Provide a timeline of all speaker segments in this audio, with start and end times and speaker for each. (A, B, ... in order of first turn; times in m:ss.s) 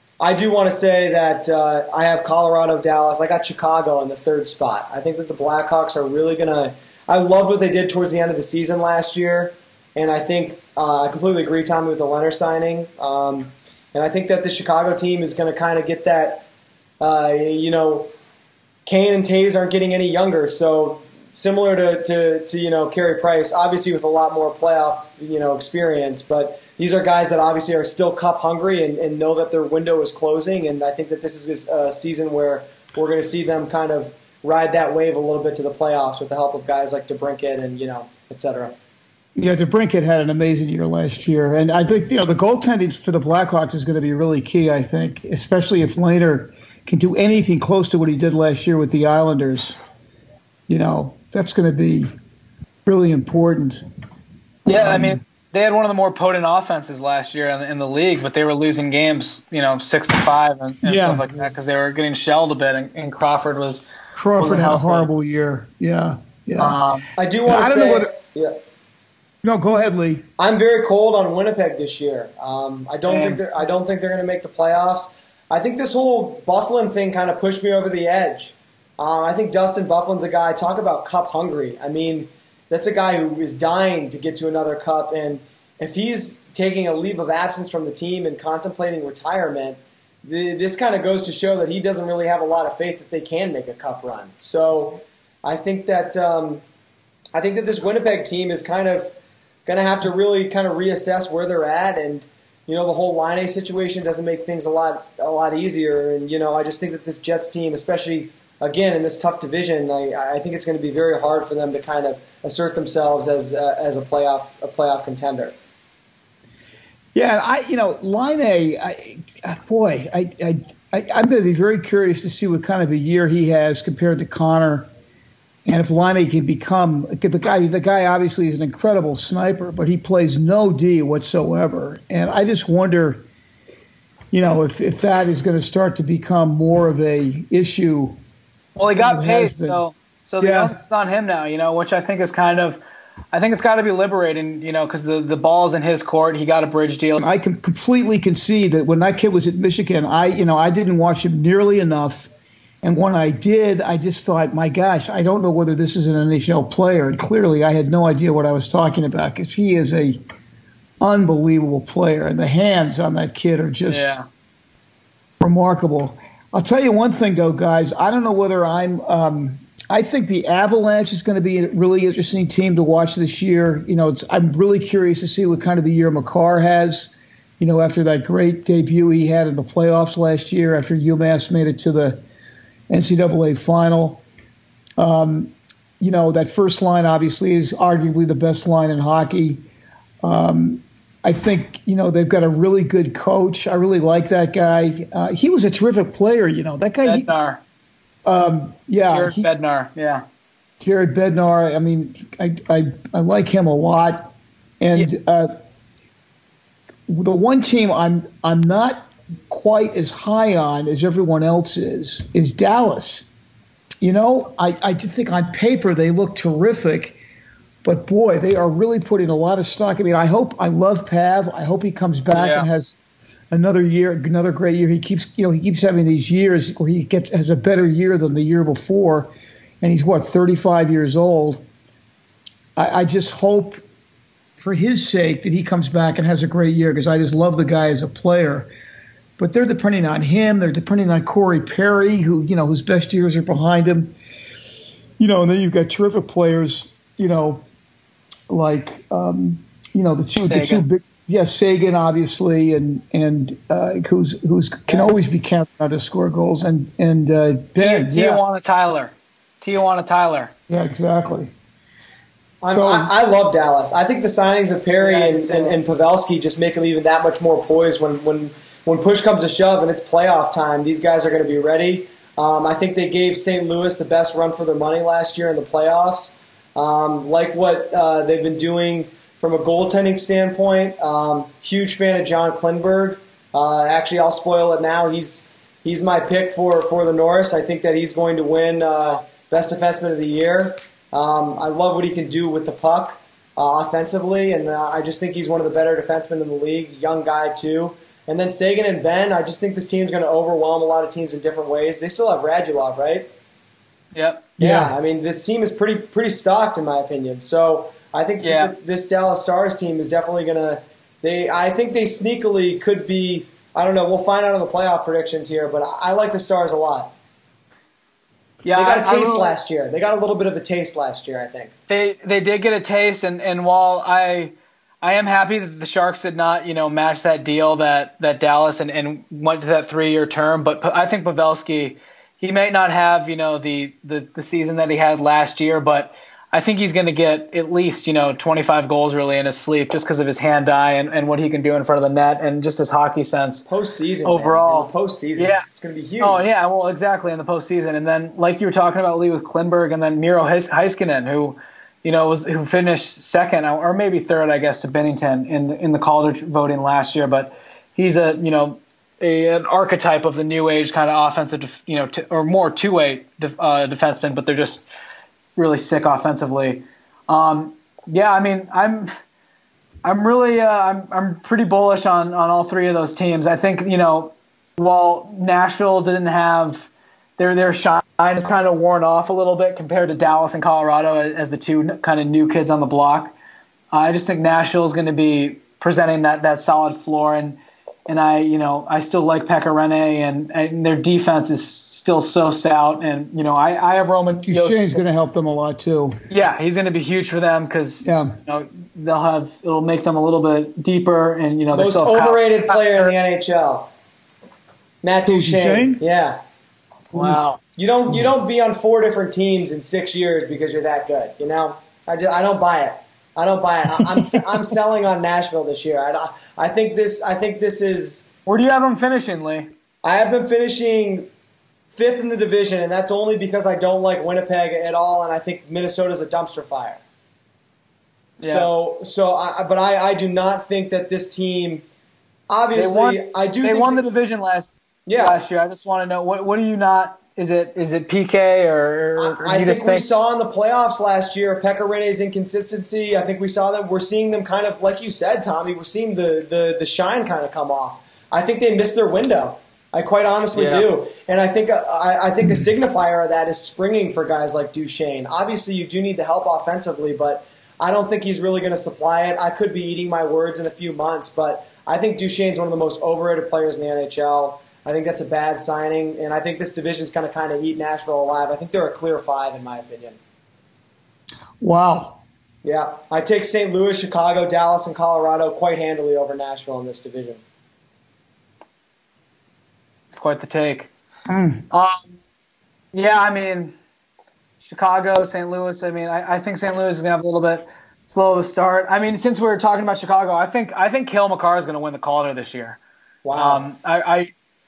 0:00.2-0:16.4 A
0:17.0-0:18.1 A
0:18.8-0:38.7 A
0:39.4-0:49.7 B
0:50.7-0:52.1 B
0:52.8-0:53.8 B
0:54.6-1:03.8 C
0:54.7-0:55.2 B
1:00.8-1:01.2 B
1:04.1-1:06.8 B
1:04.4-1:05.1 C
1:06.6-1:07.1 C
1:07.2-1:08.6 A
1:07.4-1:08.1 B
1:09.4-1:10.2 B
1:10.4-1:36.6 A
1:13.1-1:13.4 C
1:37.3-1:39.1 A
1:39.6-1:55.5 A
1:57.1-2:04.9 B
2:05.6-2:13.2 B
2:14.3-2:18.2 B
2:18.8-2:22.8 C
2:18.9-2:19.8 B
2:20.4-2:20.7 B
2:23.3-2:27.2 C
2:27.2-2:32.3 B
2:32.8-2:40.2 B
2:41.0-2:44.2 B
2:43.9-2:44.2 C
2:45.4-3:02.2 B
3:02.9-3:04.2 B
3:05.0-3:09.6 B
3:10.2-3:17.3 B
3:17.0-3:17.6 C
3:18.2-3:19.5 B
3:19.1-3:20.2 C
3:20.8-3:25.5 B
3:27.1-3:33.2 B
3:34.0-3:37.2 B
3:37.8-3:43.0 B
3:42.3-3:42.7 C
3:43.5-3:51.6 B
3:52.8-3:53.8 B
3:54.6-3:58.7 B
3:59.4-4:04.1 B
4:05.2-4:07.6 B
4:08.5-4:18.4 B
4:10.4-4:10.8 C
4:17.8-4:20.5 C
4:20.7-4:21.5 B
4:22.6-5:03.3 A
4:22.7-4:23.1 B
4:25.0-4:25.8 C
5:04.1-5:04.5 C
5:04.6-5:04.9 B
5:04.6-5:17.1 A
5:08.4-5:08.7 C
5:18.6-5:19.5 C
5:18.7-5:21.7 A
5:21.9-5:43.6 C
5:43.7-5:46.4 A
5:44.2-5:45.6 C
5:46.2-6:04.9 C
6:05.6-6:09.1 C
6:10.0-6:23.3 C
6:23.9-6:34.9 C
6:34.4-6:36.2 B
6:36.3-6:43.1 C
6:38.0-6:38.4 B
6:41.7-6:43.9 A
6:45.0-6:46.4 A
6:45.2-6:46.0 B
6:47.1-6:47.6 C
6:47.1-6:47.4 B
6:47.8-6:58.3 A
6:58.4-6:59.7 C
7:00.0-7:01.3 A
7:01.9-7:07.0 A
7:08.4-7:08.7 C
7:08.4-7:11.8 A
7:12.5-7:14.0 A
7:12.7-7:20.0 C
7:15.0-7:15.4 A
7:19.2-7:50.2 A
7:30.5-7:30.9 C
7:51.6-7:52.2 B
7:52.6-7:57.4 A
8:00.1-8:00.9 C
8:01.3-8:01.6 B
8:01.7-8:02.2 C
8:02.9-8:03.7 C
8:04.6-8:12.8 C
8:13.2-8:13.6 A
8:13.3-8:14.3 C